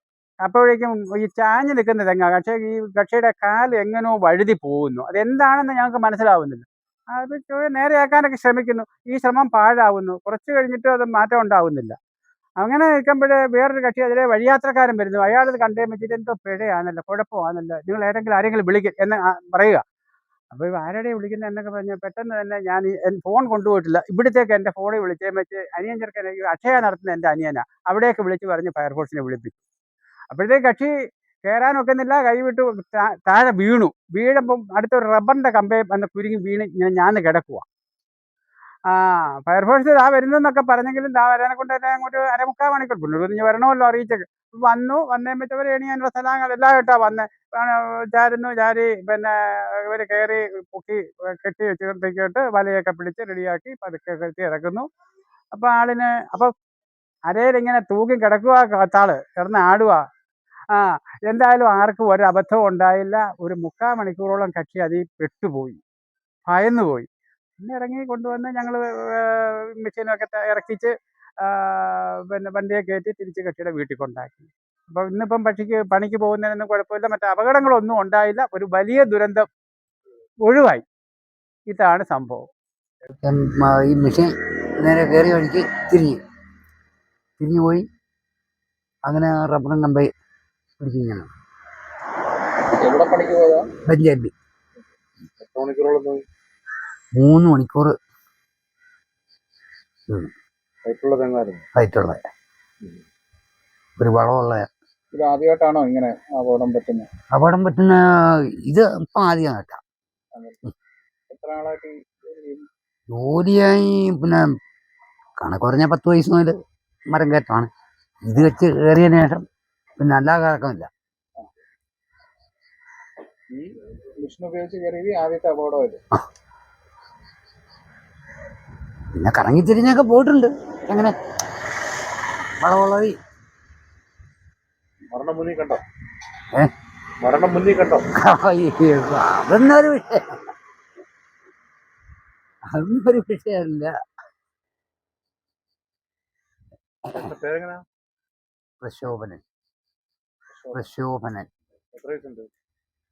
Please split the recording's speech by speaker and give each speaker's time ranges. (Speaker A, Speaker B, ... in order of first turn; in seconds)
Speaker A: 0.4-11.9, 12.6-19.8, 20.5-29.5, 30.3-30.9, 31.5-37.6, 38.9-54.9, 55.5-56.5, 57.3-60.0, 60.7-65.8, 66.5-67.1, 67.6-79.5, 80.4-80.8, 81.7-82.5
Speaker B: 83.1-86.2, 87.4-87.8, 89.1-90.1, 90.8-91.3, 93.8-94.3, 97.1-97.9, 101.8-102.2, 104.0-104.7, 107.3-108.0, 108.7-109.8, 113.1-114.5, 115.4-116.6, 117.1-117.7, 118.2-119.4, 120.0-120.9, 129.1-131.1, 132.6-133.1, 138.2-140.4, 142.7-143.9, 148.8-149.4, 150.7-151.5
Speaker C: 92.7-93.7, 95.4-96.2, 100.8-101.6, 105.1-107.1, 110.3-110.6, 111.3-112.7, 123.5-126.0, 135.1-135.8, 137.2-138.0, 147.1-147.8, 150.5-150.8, 151.9-152.5